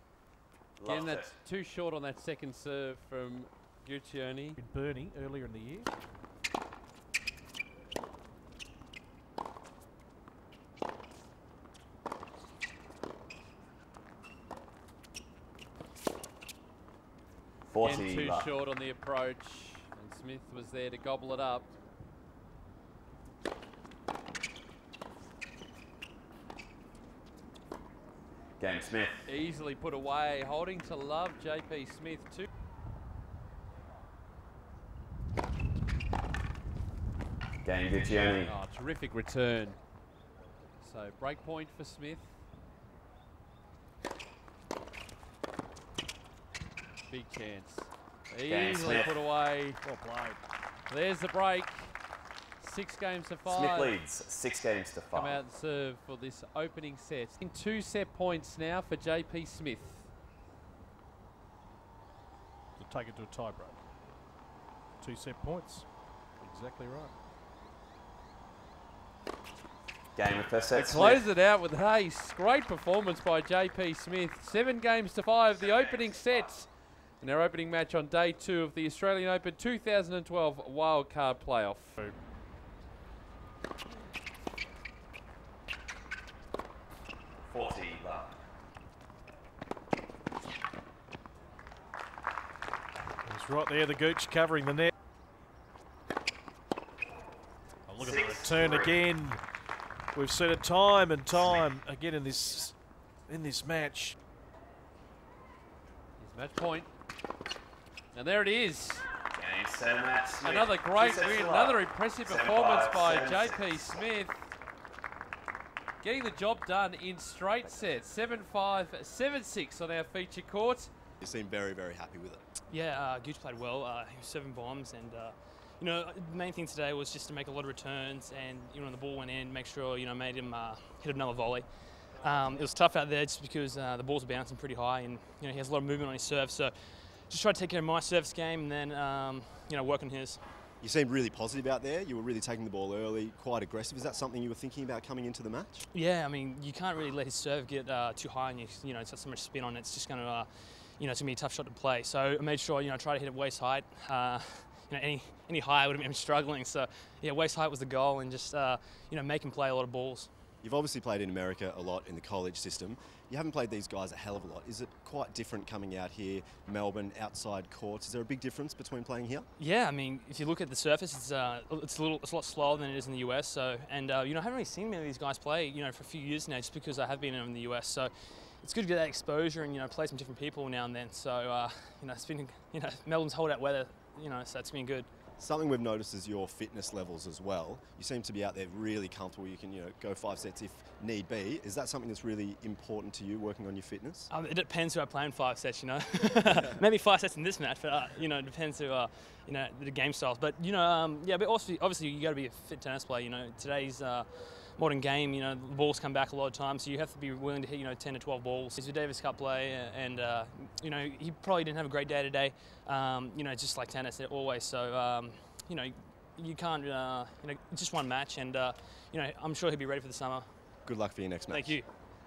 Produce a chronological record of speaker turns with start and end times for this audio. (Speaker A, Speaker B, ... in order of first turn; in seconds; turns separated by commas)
Speaker A: 0.8-1.4, Speaker B: 0.8-4.6, Speaker C: 4.6-5.9, Speaker A: 17.7-18.5, Speaker B: 17.8-21.7, Speaker A: 28.6-29.2, Speaker B: 29.3-32.5, Speaker A: 37.6-38.5, Speaker B: 38.4-39.9, Speaker B: 40.8-42.4, Speaker B: 47.1-49.8, Speaker A: 48.5-49.2, Speaker C: 49.8-50.4, Speaker B: 50.9-52.0, Speaker B: 52.6-54.0, Speaker A: 53.5-55.4, Speaker B: 55.1-60.1, Speaker C: 62.8-63.8, Speaker C: 65.0-67.2, Speaker A: 70.2-71.2, Speaker B: 70.7-82.0, Speaker A: 87.5-88.3, Speaker C: 93.2-94.9, Speaker C: 97.9-99.4, Speaker A: 98.0-99.0, Speaker C: 100.1-104.2, Speaker B: 106.2-106.9, Speaker B: 108.1-109.1, Speaker A: 109.3-114.0, Speaker B: 110.4-114.5, Speaker B: 116.0-120.9, Speaker D: 121.2-122.4, Speaker E: 122.7-131.7, Speaker E: 132.2-136.8, Speaker E: 137.3-140.4, Speaker D: 140.8-145.9, Speaker E: 145.9-160.3, Speaker D: 160.6-169.5, Speaker E: 169.6-185.1, Speaker D: 185.4-194.3, Speaker E: 194.3-220.4, Speaker D: 196.4-196.8, Speaker D: 220.9-221.8, Speaker E: 221.5-221.9